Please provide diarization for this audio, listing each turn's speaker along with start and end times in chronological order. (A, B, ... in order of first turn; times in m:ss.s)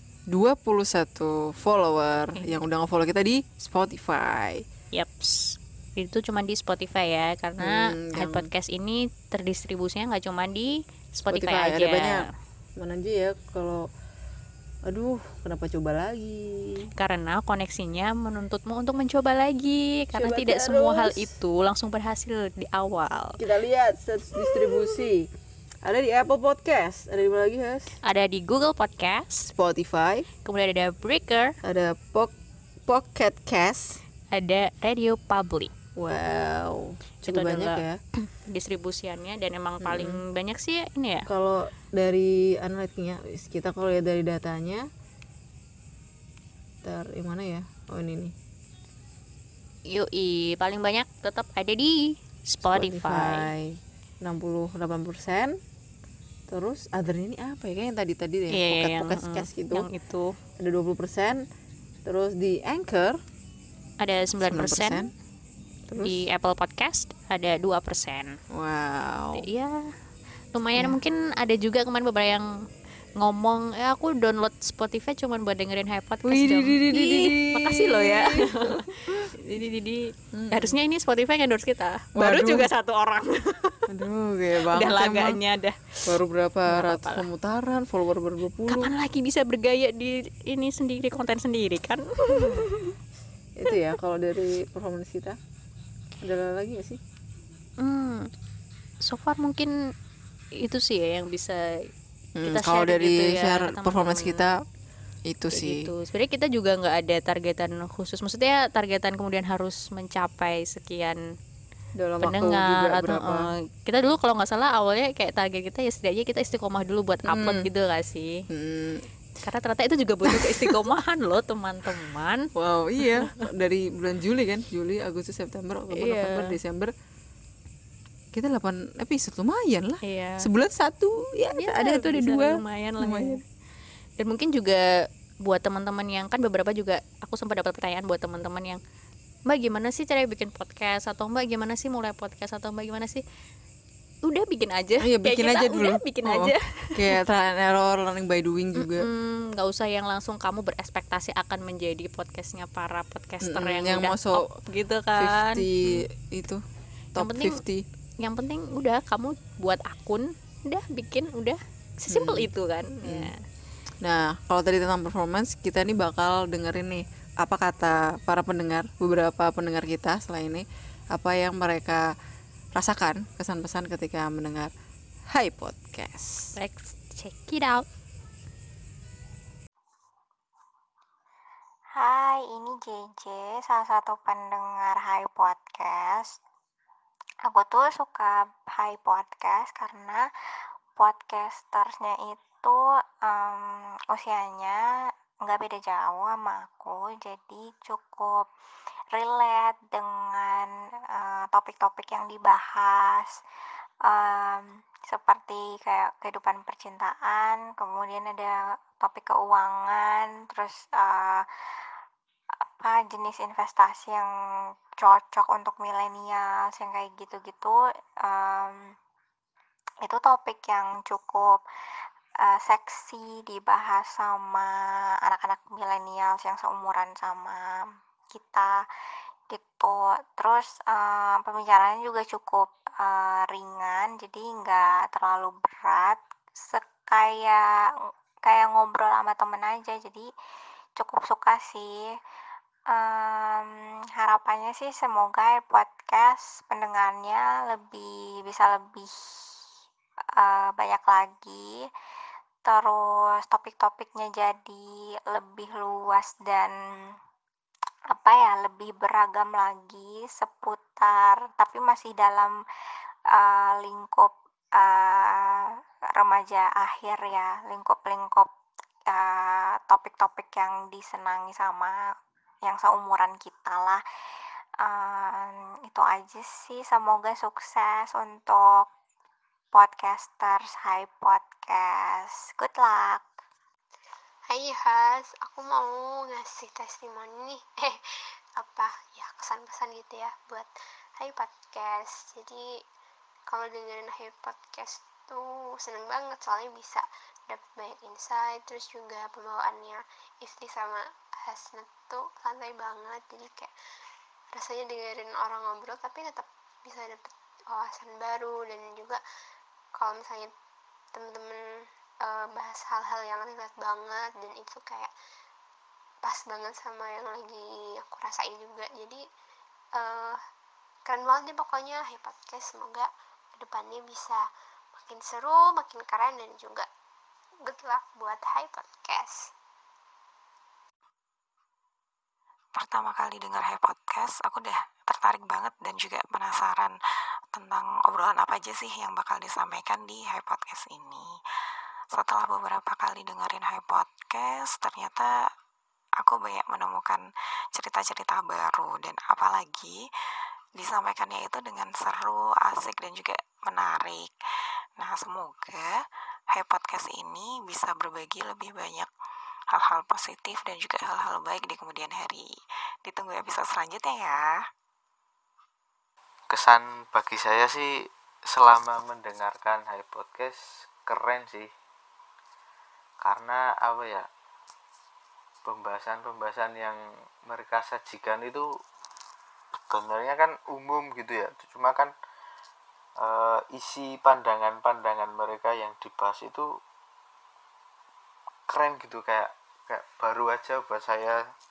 0:00.3-0:04.6 A
0:04.9-0:12.2 B
0:07.6-0:08.5 A
0:11.3-0:12.2 A
0:12.8-0:13.9 A
0:14.9-0:16.9 A
0:17.0-0:23.4 B
0:20.1-0:21.3 A
0:23.4-0:25.3 A
0:25.8-0:28.0 A
0:28.0-0:29.5 B
0:29.5-0:30.3 A
0:30.4-0:31.6 B
0:31.6-0:32.3 A
0:32.9-0:34.0 A
0:34.3-0:35.7 B
0:36.0-0:38.0 A
0:37.2-0:41.3 B
0:39.8-0:40.2 A
0:41.3-0:44.9 A
0:46.8-0:48.3 A
0:49.9-0:53.5 B
0:52.6-0:55.6 A
0:56.5-0:59.9 A
0:58.5-1:00.4 B
1:00.6-1:01.5 A
1:02.0-1:03.2 A
1:04.0-1:05.1 B
1:04.5-1:05.1 A
1:05.9-1:06.2 A
1:06.0-1:08.4 B
1:08.5-1:09.5 A
1:09.4-1:09.8 B
1:10.5-1:12.5 B
1:13.2-1:23.9 B
1:16.2-1:19.3 A
1:20.3-1:20.8 A
1:22.2-1:22.7 A
1:23.9-1:25.4 A
1:24.7-1:26.0 B
1:26.1-1:28.9 A
1:26.7-1:27.2 B
1:28.7-1:32.9 B
1:33.6-1:35.4 A
1:36.2-1:37.0 A
1:37.8-1:38.3 B
1:39.0-1:39.7 B
1:40.6-1:41.7 B
1:42.4-1:44.6 A
1:42.4-1:44.4 B
1:45.3-1:45.9 A
1:45.5-1:51.2 B
1:52.0-1:53.5 A
1:52.2-1:58.5 B
1:57.3-1:57.7 A
1:58.5-1:59.1 A
1:59.4-2:02.5 B
2:00.2-2:00.8 A
2:02.6-2:06.9 A
2:03.2-2:03.4 B
2:05.9-2:06.6 B
2:08.3-2:13.4 A
2:10.0-2:10.5 B
2:11.6-2:13.4 B
2:14.2-2:14.9 B
2:15.4-2:18.8 B
2:19.5-2:23.2 B
2:24.2-2:27.1 B
2:25.0-2:29.1 A
2:28.8-2:36.0 B
2:33.4-2:34.5 A
2:35.2-2:36.6 A
2:37.2-2:37.8 A
2:37.2-2:37.6 B
2:38.2-2:43.4 B
2:42.1-2:42.5 A
2:43.0-2:43.3 A
2:44.0-2:52.1 A
2:52.8-2:54.7 A
2:55.3-2:56.5 A
2:56.6-2:57.9 B
3:02.0-3:06.4 C
3:07.5-3:10.2 C
3:11.0-3:14.8 C
3:15.4-3:18.5 C
3:19.1-3:23.4 C
3:24.1-3:31.5 C
3:32.8-3:34.3 C
3:35.0-3:38.9 C
3:40.0-3:41.6 C
3:42.4-3:47.6 C
3:48.3-3:48.7 C
3:49.5-3:57.9 C
3:58.4-4:00.3 C
4:01.0-4:02.1 C
4:02.9-4:09.5 C
4:10.4-4:11.8 C
4:12.7-4:16.7 C
4:18.1-4:22.5 C
4:23.3-4:28.5 C
4:29.1-4:32.1 C
4:32.6-4:34.0 C
4:34.8-4:38.9 C
4:39.7-4:43.2 C
4:44.5-4:48.0 D
4:48.6-4:52.7 D
4:53.5-5:03.7 D
5:04.5-5:09.2 D
5:10.0-5:10.5 D
5:11.1-5:11.6 D
5:12.2-5:15.1 D
5:16.2-5:19.2 D
5:20.0-5:20.4 D
5:21.1-5:24.4 D
5:24.9-5:26.9 D
5:27.6-5:29.5 D
5:32.8-5:37.0 E
5:37.5-5:41.3 E
5:42.1-5:45.4 E
5:46.2-5:50.0 E
5:50.8-5:54.3 E
5:55.0-5:55.9 E
5:56.5-5:59.1 E
5:59.7-6:02.5 E
6:03.0-6:04.6 E
6:06.5-6:07.9 F
6:08.5-6:11.7 F
6:13.2-6:14.3 F
6:15.7-6:18.6 F
6:19.9-6:22.1 F
6:23.2-6:26.7 F
6:28.7-6:31.4 F